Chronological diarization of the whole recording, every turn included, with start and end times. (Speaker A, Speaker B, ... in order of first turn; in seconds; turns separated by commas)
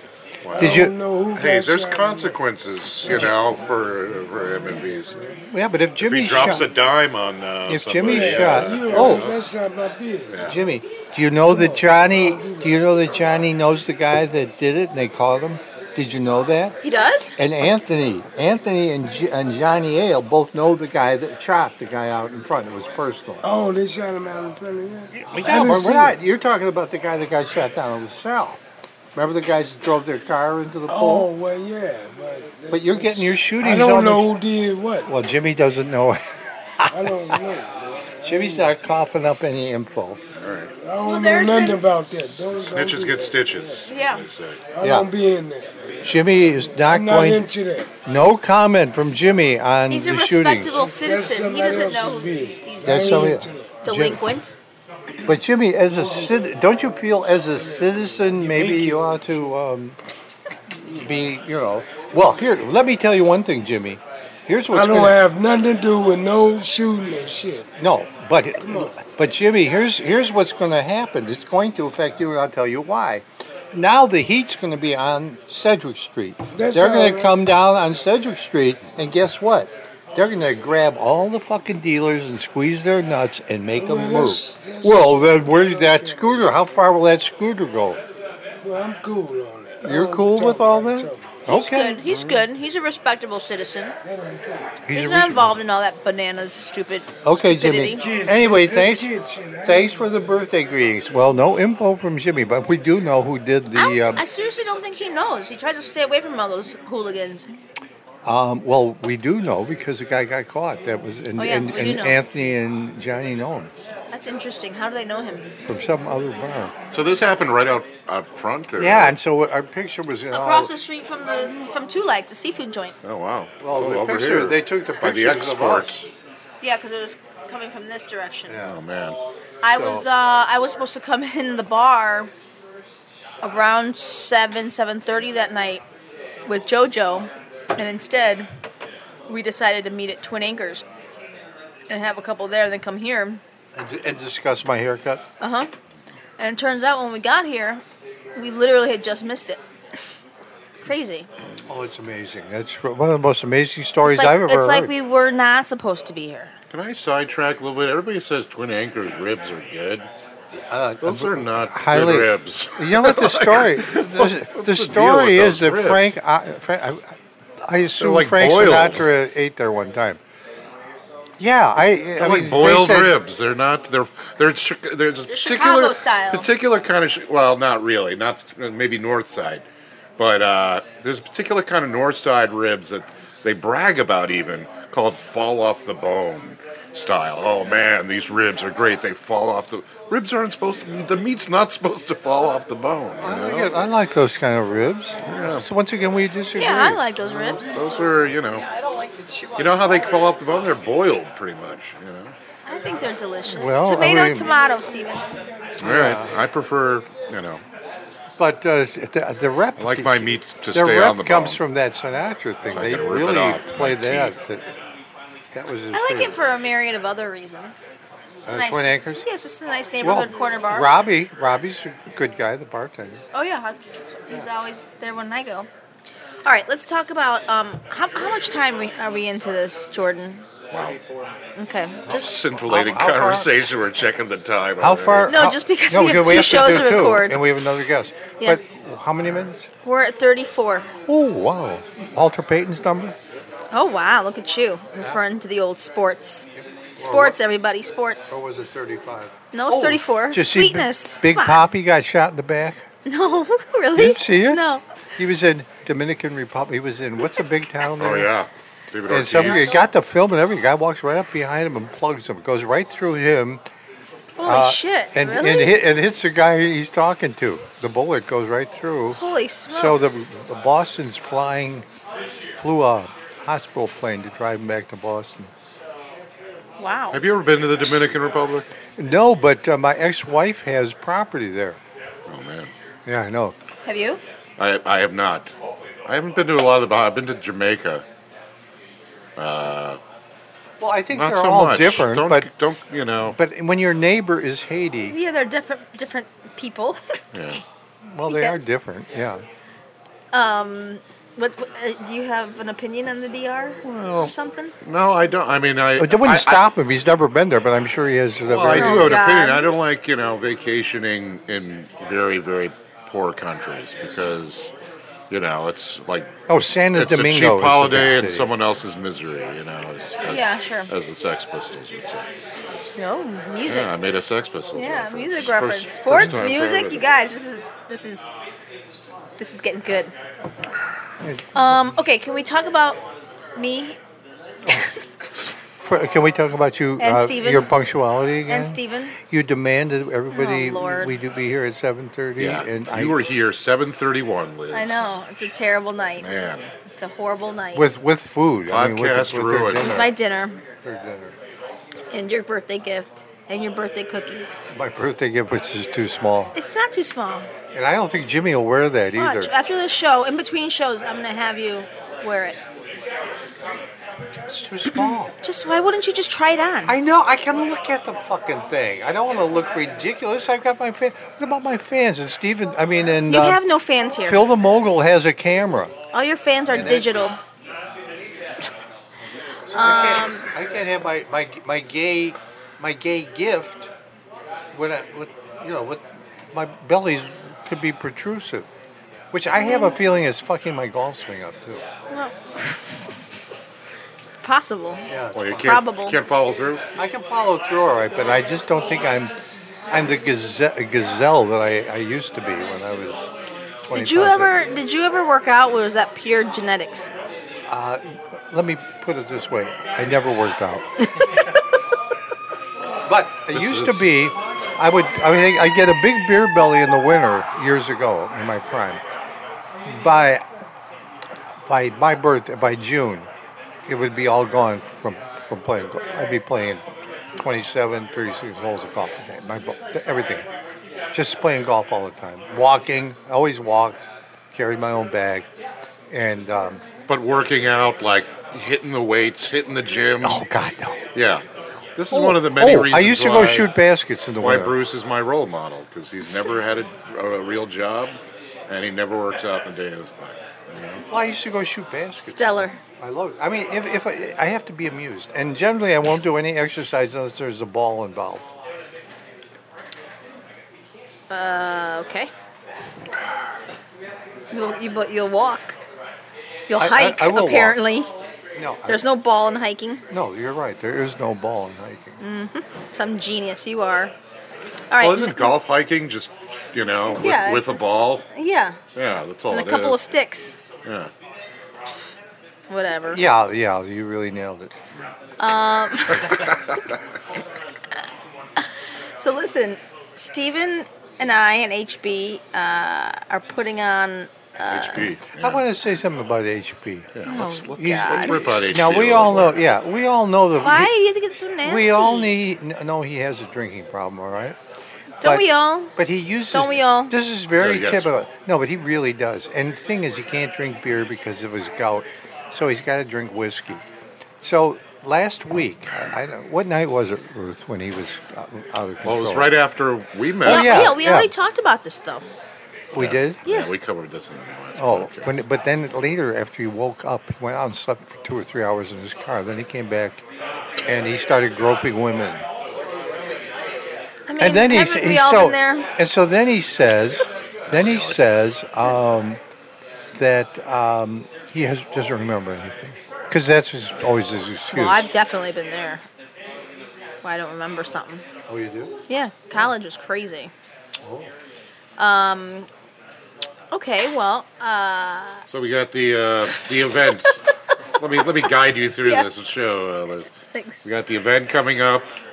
Speaker A: 0.4-5.2, Speaker B: 0.6-2.4, Speaker C: 0.6-0.9, Speaker C: 3.0-3.3, Speaker B: 3.1-3.3, Speaker B: 4.6-5.3, Speaker C: 5.5-6.7, Speaker A: 6.0-9.4, Speaker C: 7.7-9.3, Speaker B: 7.9-10.4, Speaker A: 10.3-10.6, Speaker C: 10.4-16.8, Speaker B: 11.5-12.7, Speaker D: 16.8-17.3, Speaker C: 17.4-23.4, Speaker B: 23.4-25.7, Speaker A: 25.1-26.1, Speaker C: 25.3-28.6, Speaker C: 29.1-31.3, Speaker B: 30.9-35.1, Speaker C: 32.7-34.3, Speaker C: 35.0-37.1, Speaker B: 36.9-38.7, Speaker C: 38.2-40.2, Speaker A: 40.4-40.7, Speaker B: 40.8-43.8, Speaker D: 41.0-41.8, Speaker A: 42.5-44.6, Speaker D: 43.9-44.2, Speaker B: 44.7-47.9, Speaker C: 44.8-45.1, Speaker C: 46.0-47.4, Speaker C: 48.0-50.7, Speaker D: 49.9-54.6, Speaker B: 50.7-53.8, Speaker C: 52.8-54.3, Speaker C: 55.2-60.0, Speaker B: 56.0-56.3, Speaker B: 57.6-59.4, Speaker C: 60.9-65.2, Speaker B: 64.7-67.7, Speaker C: 67.8-88.0, Speaker B: 68.6-68.9, Speaker B: 76.5-77.4, Speaker B: 83.7-86.5, Speaker B: 88.6-91.4, Speaker C: 89.8-92.0, Speaker D: 91.5-93.9, Speaker A: 92.1-92.4, Speaker B: 94.0-94.8, Speaker C: 94.9-95.6, Speaker D: 94.9-98.0, Speaker C: 97.2-99.1, Speaker B: 97.9-100.3, Speaker C: 99.6-104.2, Speaker D: 103.7-107.5, Speaker C: 108.2-113.7, Speaker D: 111.4-112.2, Speaker D: 114.1-115.5, Speaker C: 115.6-116.7, Speaker A: 116.9-119.1, Speaker C: 118.8-120.7, Speaker D: 120.3-122.9, Speaker A: 123.0-126.1, Speaker C: 123.6-126.0, Speaker D: 126.6-128.6, Speaker C: 128.5-128.8, Speaker A: 128.6-129.2, Speaker D: 129.6-132.3, Speaker C: 129.7-130.1, Speaker D: 133.4-135.8, Speaker D: 136.4-138.5, Speaker D: 139.3-140.8, Speaker D: 141.9-143.4, Speaker C: 143.7-145.2, Speaker D: 145.4-145.7, Speaker D: 146.4-147.8, Speaker D: 148.3-149.6, Speaker D: 150.8-151.3, Speaker C: 151.7-154.9, Speaker D: 154.0-156.5, Speaker A: 156.7-160.1, Speaker C: 160.7-170.2, Speaker A: 161.0-166.1, Speaker A: 168.0-169.1, Speaker C: 171.4-173.2, Speaker A: 172.2-179.6, Speaker D: 175.3-176.5, Speaker A: 180.2-193.7, Speaker C: 193.2-197.1, Speaker A: 195.2-195.6, Speaker D: 196.5-197.8, Speaker A: 197.7-198.7, Speaker E: 197.7-200.8, Speaker A: 199.6-202.3, Speaker D: 202.7-205.3, Speaker C: 203.5-204.5, Speaker A: 205.8-207.6, Speaker C: 205.8-206.4, Speaker C: 208.4-214.6, Speaker A: 209.8-211.6, Speaker A: 212.7-214.4, Speaker C: 215.5-216.3, Speaker D: 215.9-217.9, Speaker C: 218.4-219.2, Speaker D: 218.5-220.9, Speaker C: 220.0-223.2, Speaker D: 223.3-225.7, Speaker D: 226.4-230.4, Speaker A: 230.7-231.0, Speaker D: 231.6-232.3, Speaker A: 232.1-235.3, Speaker C: 232.1-233.5, Speaker C: 234.8-239.7, Speaker D: 235.3-237.4, Speaker D: 239.8-240.9, Speaker C: 241.1-243.2, Speaker D: 243.7-246.5, Speaker C: 246.6-247.4, Speaker D: 247.0-248.4, Speaker C: 248.3-252.8, Speaker D: 249.5-251.7, Speaker D: 253.1-254.8, Speaker C: 253.9-254.6, Speaker C: 255.2-258.3, Speaker A: 258.0-259.8, Speaker C: 259.1-263.6, Speaker D: 259.3-259.8, Speaker D: 264.4-265.8, Speaker C: 264.4-271.9, Speaker D: 269.1-270.2, Speaker C: 272.6-275.5, Speaker D: 276.8-277.2, Speaker A: 277.1-278.7, Speaker C: 279.0-281.8, Speaker A: 282.3-282.7, Speaker C: 283.1-283.5, Speaker D: 283.8-284.2, Speaker A: 284.6-285.5, Speaker A: 286.1-288.0, Speaker A: 289.4-290.0, Speaker C: 290.8-292.5, Speaker A: 291.1-293.4, Speaker C: 293.3-295.1, Speaker D: 295.1-297.2, Speaker A: 297.3-297.6, Speaker C: 298.1-299.4, Speaker D: 298.3-298.7, Speaker D: 300.3-304.7, Speaker A: 303.8-306.6, Speaker C: 306.0-309.2, Speaker A: 308.4-314.7, Speaker D: 308.7-309.7, Speaker A: 315.3-316.3, Speaker C: 316.5-318.5, Speaker A: 316.9-322.3, Speaker D: 320.2-320.9, Speaker D: 323.0-323.9, Speaker A: 323.7-327.1, Speaker D: 324.7-328.3, Speaker D: 329.4-330.1, Speaker C: 331.2-331.9, Speaker D: 331.5-333.0, Speaker D: 333.6-334.0, Speaker C: 335.8-343.2, Speaker D: 337.0-337.7, Speaker D: 338.5-339.1, Speaker D: 340.3-341.1, Speaker A: 342.4-345.2, Speaker D: 344.7-346.3, Speaker A: 346.2-346.7, Speaker D: 347.0-347.9, Speaker C: 347.7-350.1, Speaker A: 348.7-350.0, Speaker D: 349.8-350.6, Speaker C: 350.8-351.4, Speaker D: 352.1-354.6, Speaker C: 354.7-356.5, Speaker D: 356.5-357.5, Speaker C: 357.7-359.5, Speaker D: 359.1-362.6, Speaker C: 364.5-365.3, Speaker D: 365.4-367.0, Speaker C: 366.9-373.6, Speaker D: 373.3-374.4, Speaker C: 374.2-375.9, Speaker D: 376.1-377.4, Speaker C: 376.7-377.2, Speaker D: 379.7-380.5, Speaker C: 379.7-383.9, Speaker C: 384.7-388.7, Speaker C: 389.3-391.8, Speaker D: 389.5-389.9, Speaker D: 392.1-393.0, Speaker D: 394.4-396.2, Speaker C: 395.1-395.8, Speaker A: 395.3-396.8, Speaker C: 397.0-399.3, Speaker C: 399.9-403.3, Speaker C: 403.9-404.7, Speaker D: 403.9-407.1, Speaker C: 407.7-410.9, Speaker C: 413.1-419.0, Speaker A: 413.5-414.1, Speaker C: 419.9-420.4, Speaker C: 421.6-423.3, Speaker C: 423.9-430.5, Speaker C: 431.1-435.5, Speaker C: 436.1-436.8, Speaker A: 437.1-440.4, Speaker C: 440.2-441.0, Speaker A: 441.1-441.4, Speaker A: 442.0-443.7, Speaker C: 442.1-444.8, Speaker A: 444.4-451.0, Speaker C: 451.1-458.4, Speaker D: 452.2-452.8, Speaker D: 461.3-462.3, Speaker D: 464.5-465.8, Speaker D: 466.7-468.1, Speaker C: 466.7-467.8, Speaker C: 468.6-469.0, Speaker D: 468.9-470.0, Speaker C: 470.1-472.2, Speaker D: 472.2-474.1, Speaker D: 474.9-475.5, Speaker A: 475.0-478.2, Speaker D: 477.1-478.8, Speaker A: 478.9-480.0, Speaker D: 479.5-480.6, Speaker A: 480.8-481.1, Speaker D: 482.7-483.2, Speaker C: 483.1-484.7, Speaker D: 485.4-486.5, Speaker D: 488.6-495.1, Speaker A: 494.7-495.6, Speaker C: 495.4-497.1, Speaker A: 497.1-499.6, Speaker D: 497.2-498.4, Speaker C: 497.8-500.9, Speaker D: 500.6-502.4, Speaker C: 501.6-504.6, Speaker D: 505.2-505.9, Speaker C: 505.2-513.8, Speaker D: 506.5-507.1, Speaker A: 507.5-508.1, Speaker C: 514.4-519.5, Speaker A: 519.0-520.9, Speaker C: 520.4-521.3, Speaker D: 520.4-522.2, Speaker C: 522.9-523.4, Speaker A: 523.0-525.3, Speaker C: 524.8-530.2, Speaker C: 530.8-532.4, Speaker D: 534.3-535.9, Speaker C: 534.4-539.4, Speaker A: 537.7-538.2, Speaker C: 540.1-545.1, Speaker D: 544.7-546.0, Speaker D: 547.2-548.2, Speaker C: 548.5-548.9, Speaker D: 549.1-550.5, Speaker C: 551.0-551.3, Speaker D: 552.0-552.7, Speaker D: 553.7-555.4, Speaker A: 555.5-557.4, Speaker A: 558.0-560.3, Speaker D: 560.5-560.9, Speaker A: 560.8-562.1